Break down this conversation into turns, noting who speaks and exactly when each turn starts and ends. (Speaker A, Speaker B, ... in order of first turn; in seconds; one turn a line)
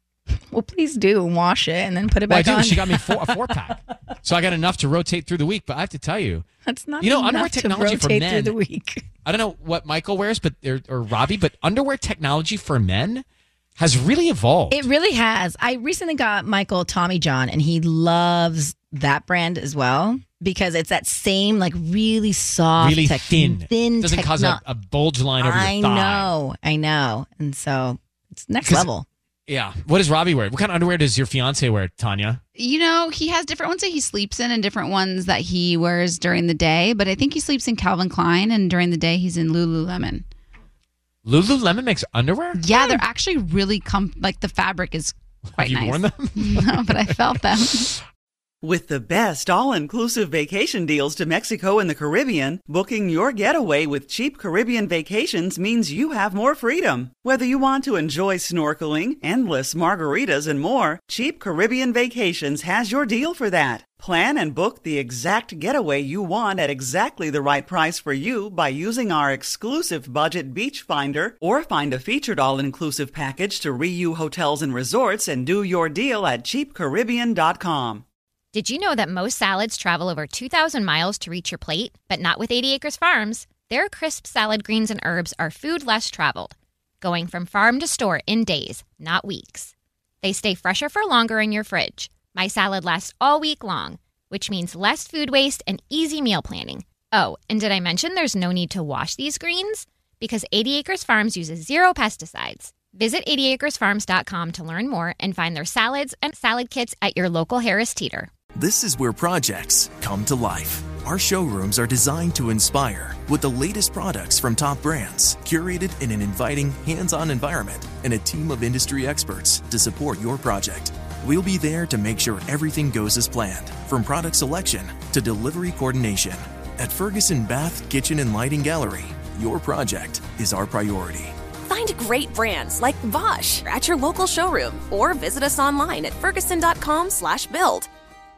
Speaker A: 0.5-3.7
Speaker B: 2.3-6.5
Speaker A: 6.7-9.1
Speaker B: 7.0-8.6
Speaker B: 9.2-13.2
Speaker B: 13.8-14.9
Speaker A: 14.7-24.6
Speaker B: 22.8-26.3
Speaker A: 25.4-29.1
Speaker B: 28.6-28.9
Speaker B: 29.5-32.4
Speaker C: 32.6-40.2
Speaker B: 41.2-43.0
Speaker C: 42.6-47.9
Speaker B: 45.5-47.1
Speaker D: 48.6-78.0
Speaker E: 78.5-108.3
Speaker F: 108.6-131.3
Speaker G: 131.7-137.9